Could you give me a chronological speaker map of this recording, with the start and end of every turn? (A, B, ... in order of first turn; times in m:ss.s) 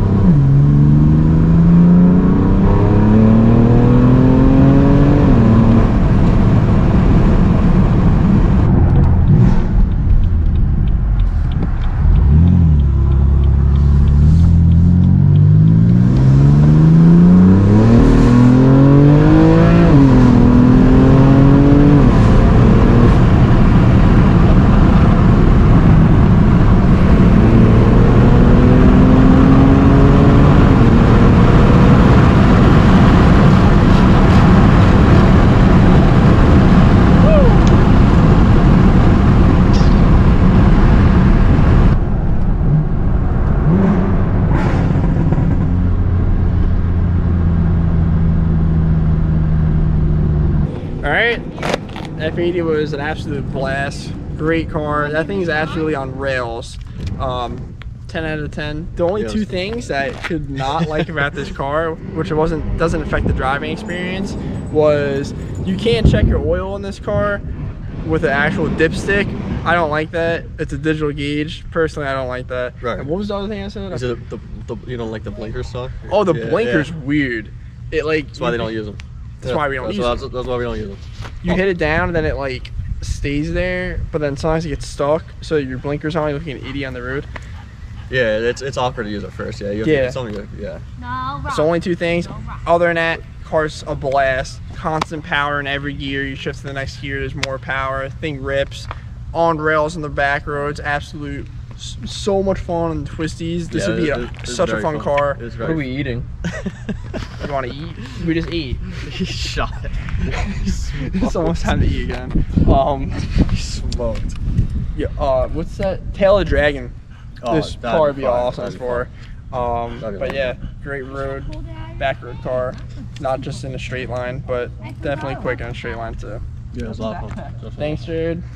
0:51.0-0:51.5 A
0:52.2-1:07.4 A
0:59.1-0:59.5 B
1:08.0-1:14.1 A
1:12.8-1:13.1 B
1:13.9-1:16.9 B
1:16.1-1:18.7 A
1:18.3-1:21.5 B
1:19.4-1:20.2 A
1:21.4-1:27.3 A
1:28.1-1:30.8 B
1:29.8-1:30.2 A
1:31.4-1:45.8 A
1:43.7-1:46.9 B
1:47.4-1:49.0 A
1:49.1-1:51.7 B
1:50.9-1:53.4 A
1:53.5-1:54.4 B
1:54.9-1:56.9 A
1:57.4-1:59.1 B
1:57.5-2:06.4 A
2:00.0-2:00.4 B
2:06.7-2:08.0 B
2:07.8-2:08.4 A